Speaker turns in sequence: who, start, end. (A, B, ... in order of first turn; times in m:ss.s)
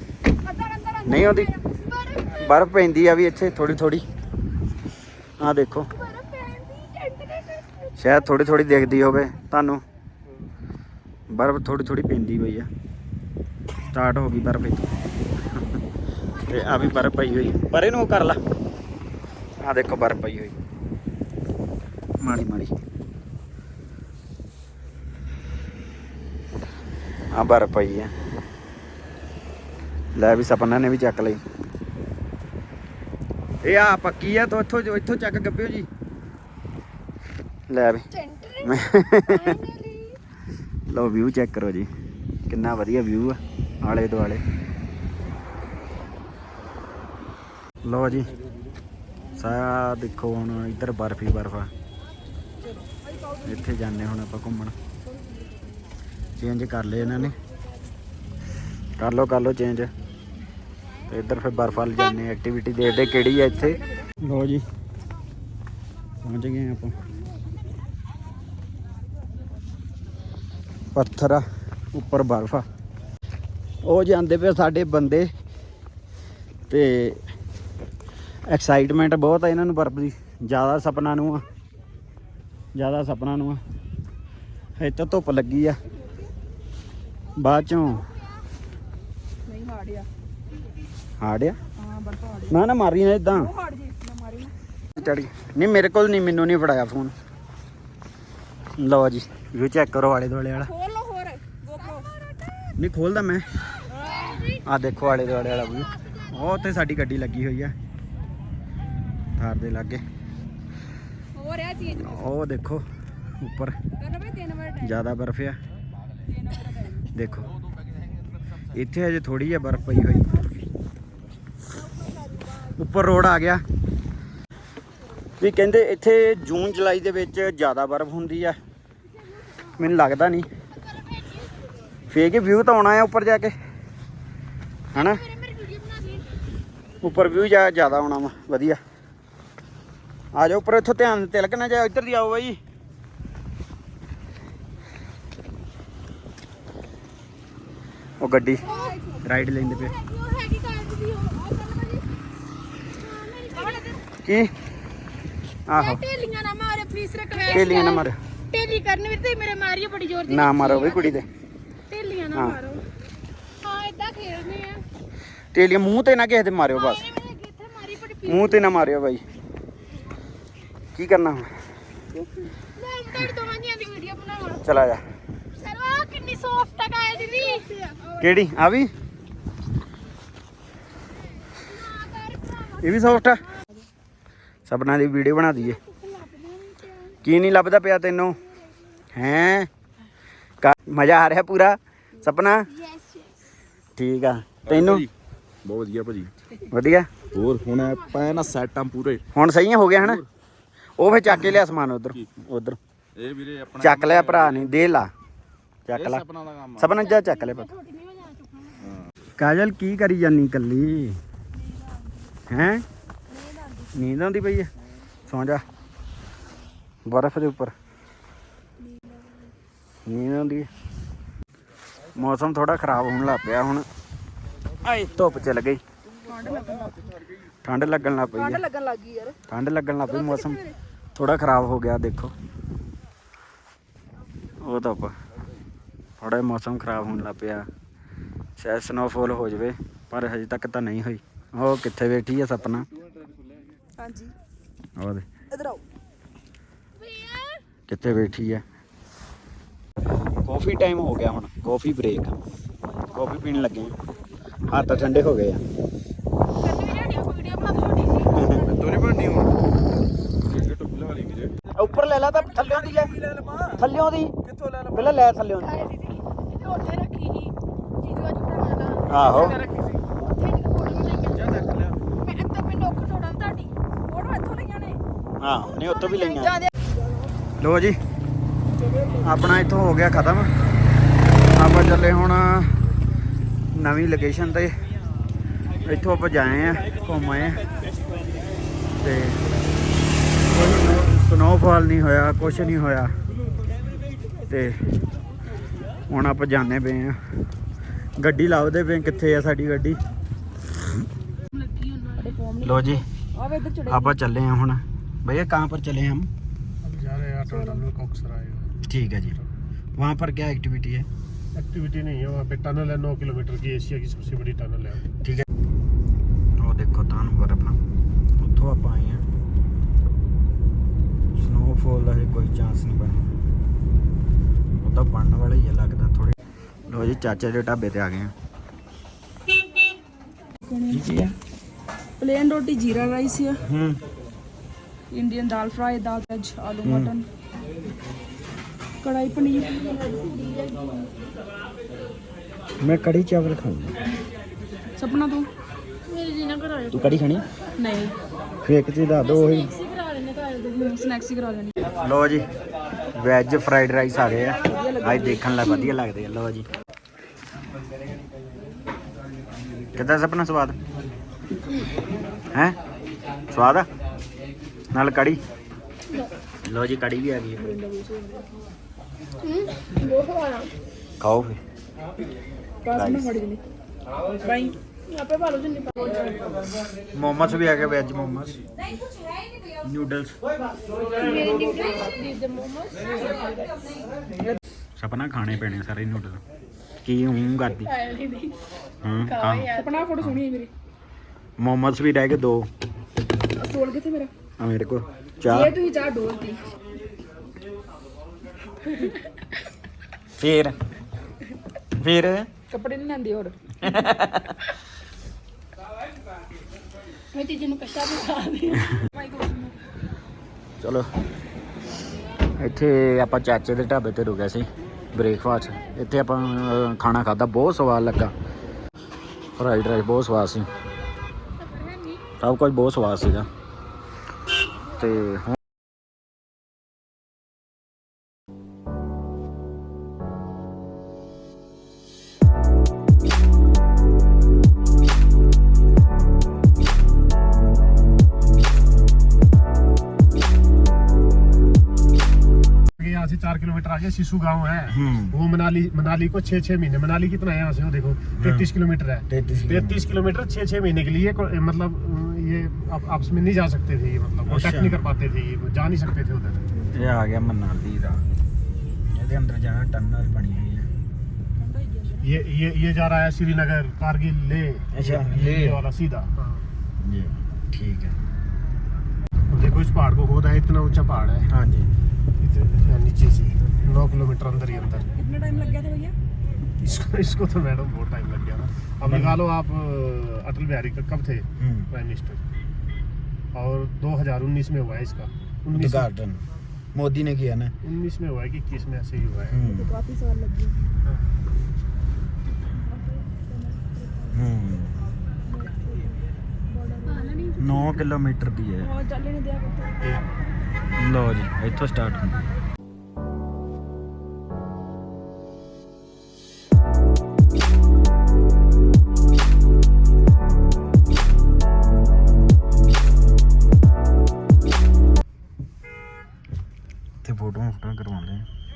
0:00.4-0:02.5 A
0:00.7-0:01.2 B
0:01.0-0:01.5 C
0:02.3-0:04.0 C
0:05.4-0:05.9 C
0:05.9-0:09.0 A
0:08.0-0:09.8 C
0:11.3-0:12.7 C
0:13.9-0:14.9 C
0:16.4-0:17.5 A
0:16.5-0:18.4 C
0:19.6-0:20.5 C
0:22.2-0:22.7 C
0:27.3-0:28.1 C
0:30.2-0:31.4 C
0:33.6-0:35.9 C
0:37.7-0:38.1 C
0:38.4-0:38.7 A
0:38.6-0:39.6 C
0:39.2-0:40.1 A
0:40.9-0:41.9 C
0:42.5-0:44.4 C
0:47.8-0:48.3 C
0:49.4-0:51.7 C
0:53.1-0:53.6 B
0:53.4-0:54.7 C
0:56.4-0:57.4 C
0:59.0-0:59.9 C
1:01.1-1:04.6 C
1:03.4-1:04.1 B
1:06.2-1:07.0 C
1:10.9-1:12.6 C
1:13.8-1:15.3 C
1:16.7-1:17.2 C
1:18.5-1:21.4 C
1:22.8-1:23.6 C
1:24.8-1:25.8 C
1:27.4-1:28.1 C
1:29.4-1:30.1 B
1:31.2-1:31.6 C
1:31.8-1:32.6 B
1:32.5-1:33.5 C
1:33.3-1:34.5 B
1:34.9-1:37.1 C
1:38.8-1:40.7 C
1:40.6-1:42.1 B
1:41.8-1:42.7 A
1:42.8-1:43.5 C
1:44.0-1:44.4 B
1:44.1-1:44.6 A
1:44.6-1:47.7 C
1:45.7-1:46.3 A
1:49.4-1:50.0 C
1:51.4-1:52.2 B
1:51.9-1:52.8 C
1:53.4-1:53.7 C
1:54.0-1:54.9 B
1:54.8-1:55.6 C
1:56.3-1:57.1 B
1:57.1-1:57.5 C
1:58.7-2:00.3 C
2:02.7-2:03.6 C
2:05.4-2:08.6 C
2:09.8-2:10.5 C
2:10.7-2:11.5 A
2:12.1-2:13.5 C
2:14.9-2:16.3 A
2:14.9-2:15.2 C
2:17.0-2:18.8 C
2:20.3-2:22.6 C
2:28.2-2:28.6 C
2:28.6-2:29.2 B
2:28.6-2:28.9 A
2:29.2-2:29.9 C
2:29.5-2:32.0 A
2:33.0-2:34.0 A
2:34.2-2:34.5 C
2:35.7-2:36.0 C
2:35.7-2:41.2 A
2:37.5-2:38.2 C
2:40.3-2:41.2 C
2:41.9-2:42.8 A
2:43.6-2:44.8 A
2:45.5-2:47.1 C
2:46.7-2:48.6 A
2:48.2-2:49.2 C
2:50.9-2:51.5 C
2:52.1-2:52.5 B
2:52.8-2:54.6 A
2:54.6-2:55.0 C
2:55.5-2:58.1 A
2:58.2-2:58.9 C
3:01.6-3:02.9 A
3:02.8-3:03.5 C
3:04.7-3:05.8 C
3:05.9-3:06.5 A
3:07.2-3:08.4 C
3:09.1-3:09.7 C
3:10.6-3:12.7 C
3:12.8-3:13.3 A
3:14.0-3:15.1 C
3:14.6-3:15.1 D
3:15.6-3:16.3 D
3:16.7-3:17.1 C
3:17.3-3:19.2 D
3:19.3-3:20.2 C
3:21.0-3:22.8 C
3:23.2-3:24.8 D
3:23.8-3:25.1 C
3:25.9-3:26.2 C
3:25.9-3:26.9 D
3:26.8-3:27.7 C
3:27.0-3:28.9 A
3:29.4-3:31.2 C
3:32.5-3:32.8 C
3:33.9-3:34.7 C
3:35.3-3:35.6 C
3:37.0-3:37.7 C
3:38.8-3:39.2 B
3:40.0-3:40.7 C
3:42.1-3:43.8 C
3:44.8-3:45.8 C
3:46.2-3:47.1 B
3:47.6-3:48.6 C
3:48.4-3:49.4 B
3:49.5-3:50.6 C
3:50.1-3:50.7 B
3:51.1-3:52.3 C
3:54.6-3:55.1 C
3:56.2-3:57.7 C
3:58.6-4:02.9 C
4:04.0-4:04.3 B
4:05.0-4:05.3 C
4:05.5-4:05.8 B
4:07.0-4:07.6 A
4:07.9-4:08.6 C
4:10.4-4:12.4 C
4:13.1-4:13.9 C
4:14.6-4:15.6 C
4:16.6-4:18.6 A
4:18.3-4:18.7 C
4:18.7-4:19.5 D
4:20.5-4:21.5 D
4:21.7-4:23.2 C
4:23.8-4:24.3 C
4:24.9-4:25.7 C
4:25.6-4:33.7 A
4:29.1-4:29.6 C
4:34.0-4:35.0 B
4:35.4-4:36.6 C
4:35.8-4:36.6 A
4:37.6-4:38.0 C
4:39.2-4:40.5 C
4:41.5-4:42.8 C
4:43.7-4:44.7 C
4:45.8-4:47.6 C
4:49.0-4:49.4 C
4:50.5-4:53.1 C
4:54.5-4:54.8 C
4:56.1-4:57.2 C
4:58.2-5:00.0 C
5:01.5-5:02.3 A
5:02.2-5:04.2 B
5:02.6-5:03.0 C
5:03.9-5:06.3 C
5:06.8-5:08.7 E
5:07.4-5:07.8 B
5:08.9-5:09.4 C
5:10.0-5:11.1 C
5:11.5-5:15.0 E
5:16.6-5:17.8 C
5:18.4-5:19.2 C
5:21.3-5:23.3 C
5:24.8-5:26.4 C
5:26.9-5:28.3 C
5:30.6-5:31.1 B
5:30.9-5:31.3 C
5:32.2-5:33.6 B
5:33.6-5:34.0 C
5:35.1-5:37.3 B
5:36.8-5:37.1 C
5:39.0-5:41.1 B
5:42.8-5:44.0 C
5:44.9-5:45.5 B
5:46.1-5:47.2 A
5:46.9-5:47.4 C
5:47.8-5:48.1 B
5:48.6-5:49.7 C
5:49.2-5:50.6 A
5:50.6-5:51.8 B
5:52.0-5:52.4 C
5:53.1-5:56.7 C
5:54.6-5:55.9 B
5:59.9-6:00.8 C
6:03.5-6:03.9 C
6:04.9-6:05.4 C
6:06.6-6:07.7 C
6:07.6-6:08.5 B
6:09.4-6:10.7 A
6:11.2-6:11.6 C
6:12.8-6:13.6 B
6:12.9-6:13.3 C
6:14.4-6:14.8 B
6:15.1-6:16.3 A
6:17.1-6:18.6 C
6:19.8-6:20.3 C
6:21.2-6:23.7 A
6:25.0-6:26.4 C
6:27.0-6:27.9 C
6:27.8-6:28.5 A
6:29.0-6:30.4 C
6:29.2-6:30.0 A
6:29.7-6:30.7 B
6:31.6-6:32.7 C
6:33.6-6:34.3 B
6:34.6-6:35.8 C
6:35.4-6:36.6 B
6:40.4-6:40.8 C
6:42.0-6:42.5 C
6:42.7-6:43.6 B
6:43.8-6:44.6 C
6:47.3-6:49.0 A
6:49.1-6:49.7 B
6:50.8-6:51.1 C
6:52.6-6:58.3 C
6:59.6-7:00.7 C
7:01.6-7:02.2 A
7:02.4-7:03.5 C
7:05.0-7:05.6 C
7:23.0-7:36.6 E
7:24.9-7:25.4 C
7:28.4-7:28.7 C
7:29.3-7:30.1 C
7:34.5-7:35.0 C
7:36.9-7:38.2 C
7:39.1-7:40.9 C
7:41.6-7:42.4 B
7:42.2-7:46.6 E
7:44.9-7:45.8 C
7:47.0-7:48.2 C
7:49.5-7:51.5 E
7:51.5-7:51.9 C
7:52.4-7:55.1 E
7:55.1-7:56.1 B
7:56.8-8:02.4 E
7:59.0-7:59.4 C
8:01.6-8:01.9 C
8:03.5-8:06.1 E
8:05.7-8:06.4 C
8:06.9-8:07.7 C
8:07.8-8:09.6 E
8:09.5-8:09.9 C
8:09.6-8:10.9 B
8:12.8-8:14.4 B
8:14.3-8:14.9 C
8:15.4-8:17.6 B
8:17.1-8:17.8 A
8:17.6-8:18.9 C
8:18.8-8:20.2 B
8:20.9-8:22.5 C
8:37.2-8:38.4 C